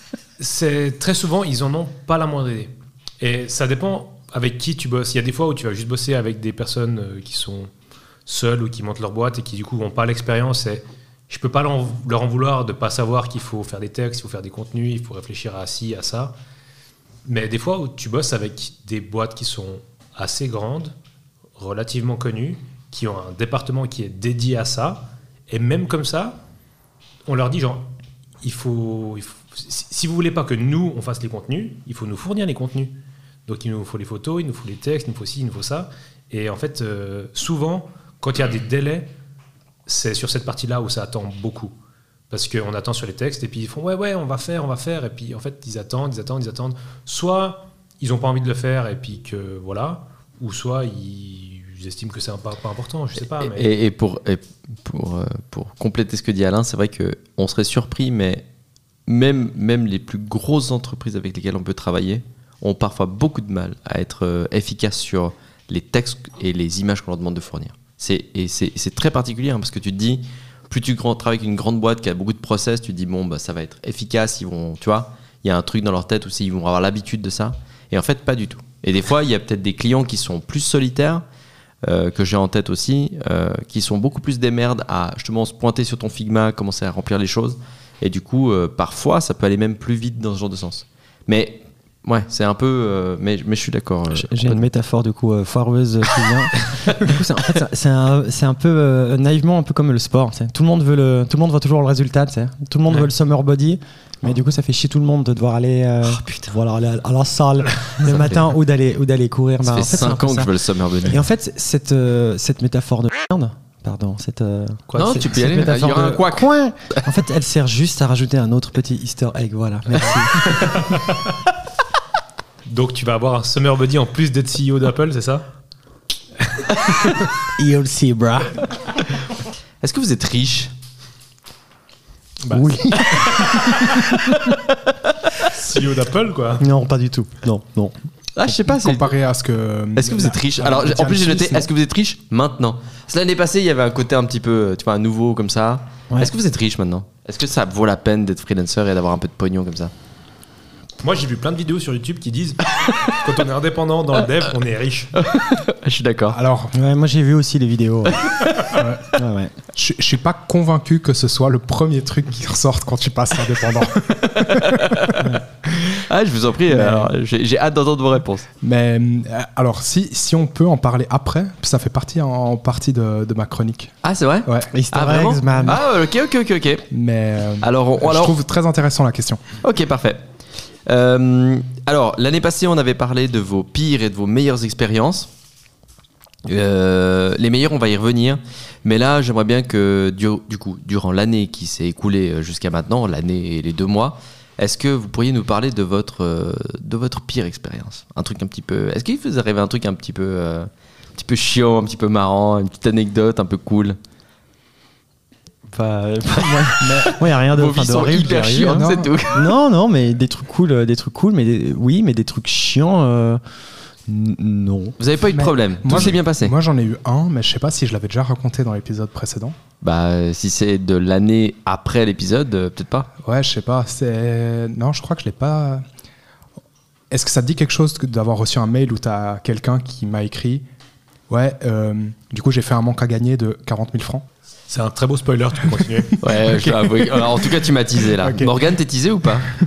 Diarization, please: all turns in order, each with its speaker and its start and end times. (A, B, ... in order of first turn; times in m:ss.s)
0:00.4-0:07.7 A
0:08.3-0:16.3 A
0:17.2-0:20.9 A
0:21.6-0:26.4 A
0:27.3-0:27.9 A
0:28.4-0:39.1 A
0:39.9-0:41.7 A
0:42.3-0:53.7 A
0:53.2-0:58.4 B
0:59.1-1:21.2 B
1:21.8-1:34.6 B
1:34.1-1:50.5 C
1:46.1-1:46.5 B
1:48.0-1:48.4 B
1:49.6-1:51.2 B
1:51.0-2:00.9 C
1:54.9-1:57.0 B
2:00.5-2:01.0 A
2:02.6-2:05.4 A
2:07.6-2:08.7 C
2:09.8-2:10.7 B
2:12.4-2:13.8 A
2:12.5-2:13.3 C
2:15.4-2:16.6 A
2:16.6-2:17.9 C
2:18.4-2:19.1 B
2:18.5-2:21.7 D
2:20.0-2:29.9 B
2:31.0-2:35.1 A
2:32.8-2:33.2 B
2:35.1-2:36.4 B
2:36.3-2:36.7 D
2:36.7-2:38.3 C
2:38.7-2:39.2 D
2:39.1-2:39.5 C
2:39.7-2:45.3 D
2:44.5-2:45.2 B
2:45.9-2:48.4 B
2:46.7-2:47.1 D
2:48.6-2:54.7 D
2:54.0-2:56.8 B
2:54.7-2:55.8 C
2:56.9-2:59.4 D
2:57.6-2:58.4 B
2:59.6-3:00.2 B
3:00.8-3:05.3 B
3:06.4-3:24.0 B
3:25.7-3:33.4 C
3:26.8-3:27.1 D
3:27.0-3:29.5 B
3:28.5-3:29.1 D
3:34.0-3:35.0 C
3:35.0-3:36.5 B
3:35.3-3:39.6 D
3:39.8-3:43.1 B
3:43.2-3:45.8 D
3:47.1-3:50.6 D
3:51.3-3:54.2 D
3:54.7-3:56.2 A
3:56.2-3:59.5 B
3:56.2-3:57.6 D
3:58.2-3:58.5 D